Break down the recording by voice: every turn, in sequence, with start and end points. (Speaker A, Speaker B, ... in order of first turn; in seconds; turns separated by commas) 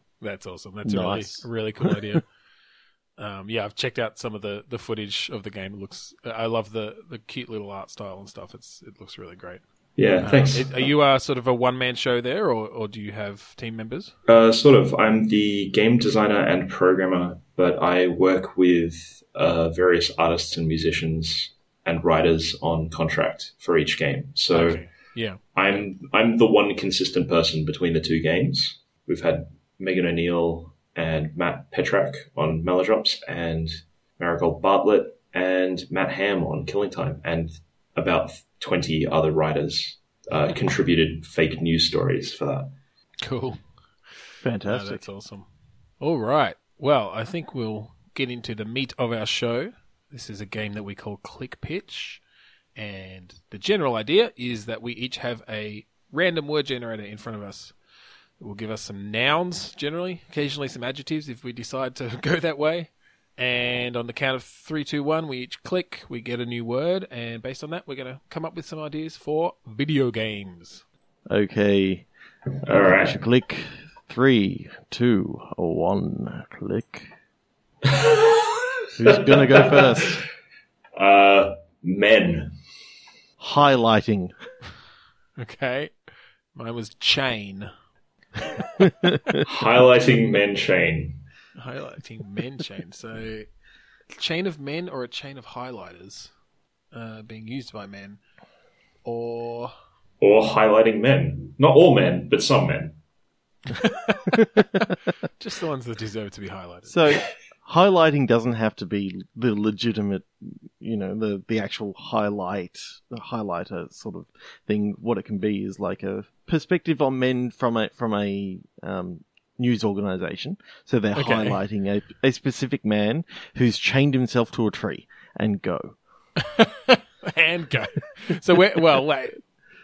Speaker A: 0.2-2.3, Speaker B: 0.8-1.9, Speaker A: 3.2-9.6, Speaker C: 10.0-10.9, Speaker A: 10.2-14.1, Speaker C: 14.3-24.9, Speaker A: 24.5-25.4, Speaker C: 25.6-42.7, Speaker A: 43.2-43.6, Speaker B: 44.4-45.0, Speaker A: 44.7-45.5, Speaker A: 46.0-52.2, Speaker A: 52.8-57.8, Speaker A: 58.4-70.8, Speaker B: 71.3-72.1, Speaker B: 72.6-77.1, Speaker C: 72.7-73.2, Speaker C: 77.8-80.2, Speaker B: 79.0-80.2, Speaker C: 81.0-82.5, Speaker B: 83.4-84.3, Speaker A: 85.4-85.9, Speaker A: 86.5-87.7, Speaker B: 88.8-89.4, Speaker C: 89.4-91.2, Speaker A: 91.6-93.5, Speaker A: 94.2-96.3, Speaker A: 96.9-98.2, Speaker A: 99.0-99.7, Speaker C: 100.2-103.0, Speaker A: 103.7-107.0, Speaker B: 106.9-126.0, Speaker A: 121.2-121.6, Speaker A: 126.4-129.4